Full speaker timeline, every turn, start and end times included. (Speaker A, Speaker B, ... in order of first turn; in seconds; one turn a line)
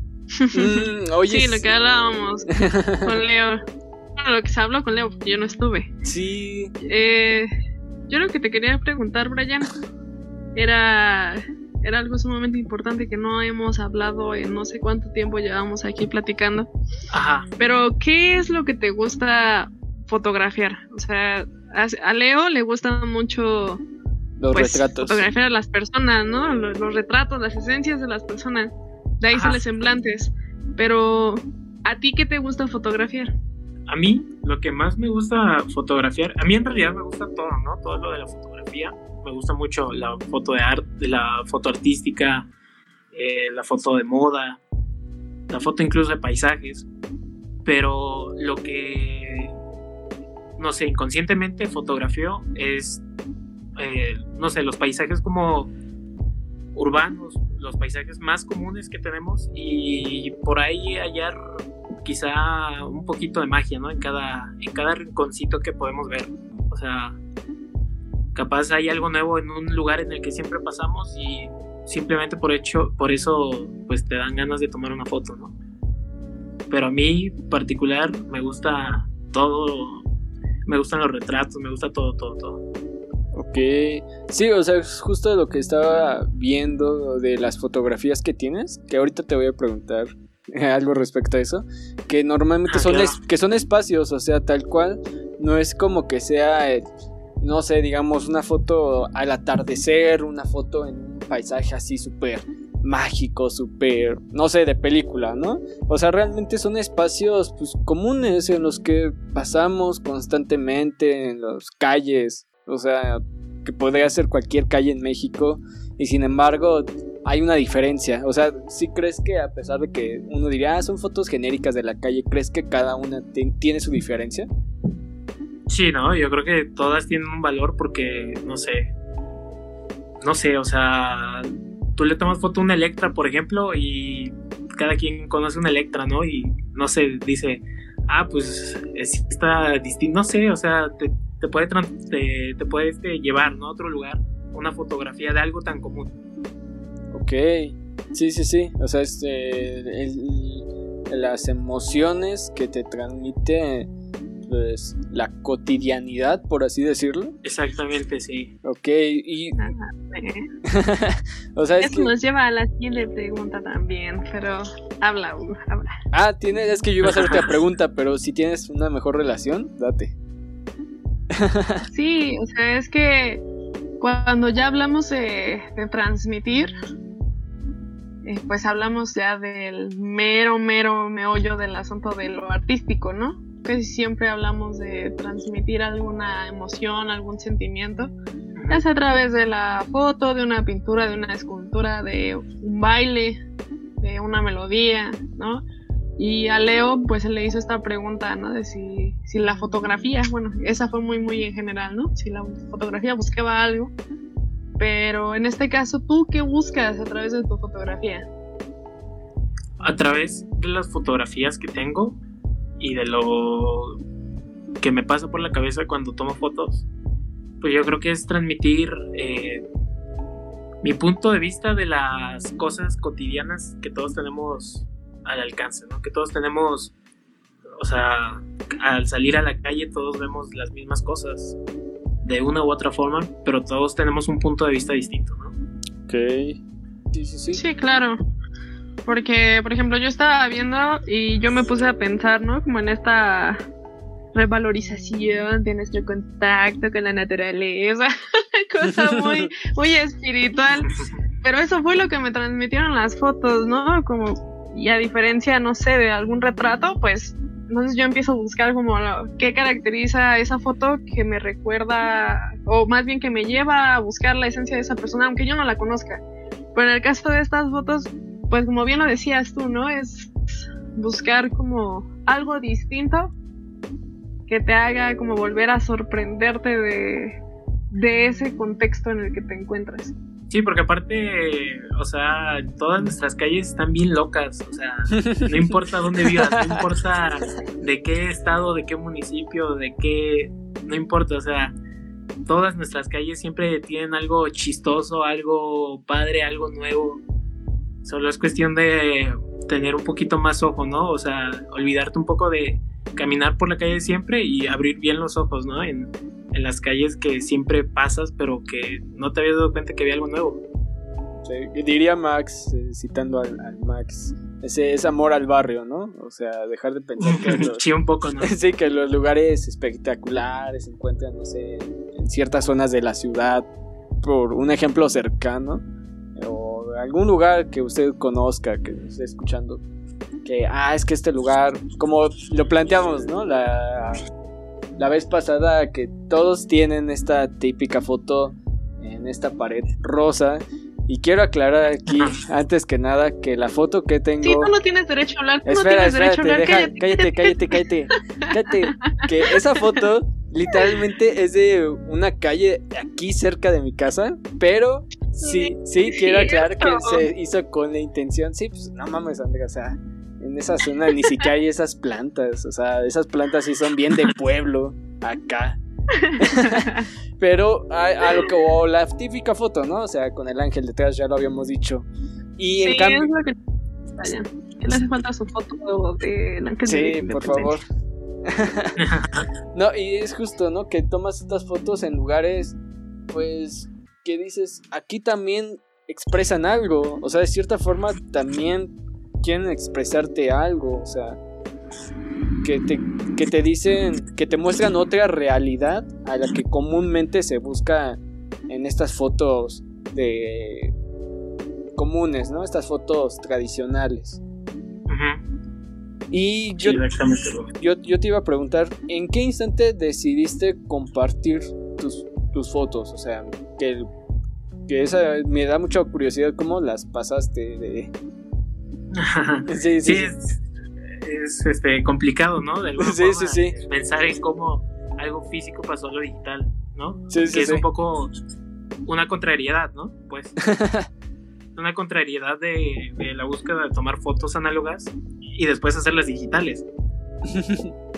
Speaker A: 0.3-3.6
Speaker B: 0.5-1.6
Speaker B: 2.6-3.1
Speaker A: 4.2-5.9
Speaker B: 6.0-6.7
Speaker A: 6.8-7.5
Speaker A: 8.1-9.7
Speaker A: 10.5-16.7
Speaker C: 17.1-17.5
Speaker A: 17.6-23.8
Speaker B: 24.4-25.2
Speaker A: 24.5-33.3
Speaker C: 29.3-29.6
Speaker C: 33.9-42.5
Speaker C: 43.1-44.6
Speaker C: 45.5-46.9
Speaker C: 47.6-49.5
Speaker C: 50.6-53.0
Speaker C: 53.8-55.7
Speaker C: 56.7-61.4
Speaker C: 62.0-67.2
Speaker C: 68.3-75.5
Speaker C: 76.7-80.0
Speaker C: 80.7-82.6
Speaker B: 83.3-96.8
Speaker C: 92.7-93.2
Speaker B: 97.4-124.5
Speaker C: 125.7-128.9
Speaker C: 130.2-146.1
Speaker B: 147.1-153.9
Speaker B: 154.5-157.3
Speaker C: 157.4-158.5
Speaker B: 158.6-159.7
Speaker A: 159.6-160.4
Speaker B: 160.7-162.1
Speaker A: 161.8-165.9
Speaker B: 166.1-170.1
Speaker B: 171.3-171.8
Speaker A: 171.9-173.4
Speaker A: 174.0-176.7
Speaker A: 178.2-188.1
Speaker C: 188.6-188.8
Speaker A: 188.7-193.4
Speaker A: 194.0-195.6
Speaker A: 196.2-203.9
Speaker A: 204.8-208.3
Speaker C: 209.8-212.2
Speaker C: 212.8-214.0
Speaker C: 214.8-216.8
Speaker C: 217.6-219.6
Speaker C: 220.8-226.9
Speaker C: 227.8-231.6
Speaker C: 232.2-235.5
Speaker B: 236.1-236.6
Speaker B: 237.1-237.6
Speaker A: 237.5-238.2
Speaker A: 239.0-243.6
Speaker A: 244.3-250.9
Speaker B: 248.9-249.5
Speaker A: 251.4-266.2
Speaker A: 266.7-270.3
Speaker A: 270.9-273.3
Speaker A: 274.5-277.3
Speaker A: 277.9-280.1
Speaker C: 280.5-291.8
Speaker B: 285.2-286.8
Speaker C: 292.4-297.2
Speaker C: 298.0-310.6
Speaker B: 311.4-317.8
Speaker C: 317.2-318.5
Speaker B: 318.4-323.7
Speaker B: 324.2-325.8
Speaker B: 326.4-329.8
Speaker B: 330.4-334.2
Speaker B: 334.9-344.7
Speaker C: 342.1-342.4
Speaker A: 344.4-347.8
Speaker B: 345.6-365.8
Speaker A: 349.1-350.0
Speaker A: 355.4-357.2
Speaker A: 366.2-367.0
Speaker B: 366.4-373.3
Speaker A: 372.8-373.5
Speaker A: 374.2-377.8
Speaker B: 376.9-377.9
Speaker B: 378.4-379.0
Speaker C: 379.0-379.4
Speaker B: 379.7-382.8
Speaker B: 383.3-391.4
Speaker B: 392.6-400.9
Speaker B: 401.9-404.4
Speaker C: 405.1-405.4
Speaker B: 406.3-407.0
Speaker C: 406.8-407.7
Speaker B: 407.8-414.1
Speaker B: 414.9-418.1
Speaker C: 419.1-420.6
Speaker B: 419.7-420.3
Speaker C: 421.1-428.3
Speaker B: 423.0-423.8
Speaker B: 427.3-427.8
Speaker C: 429.1-430.5
Speaker B: 430.6-431.1
Speaker C: 431.8-436.9
Speaker B: 437.5-437.9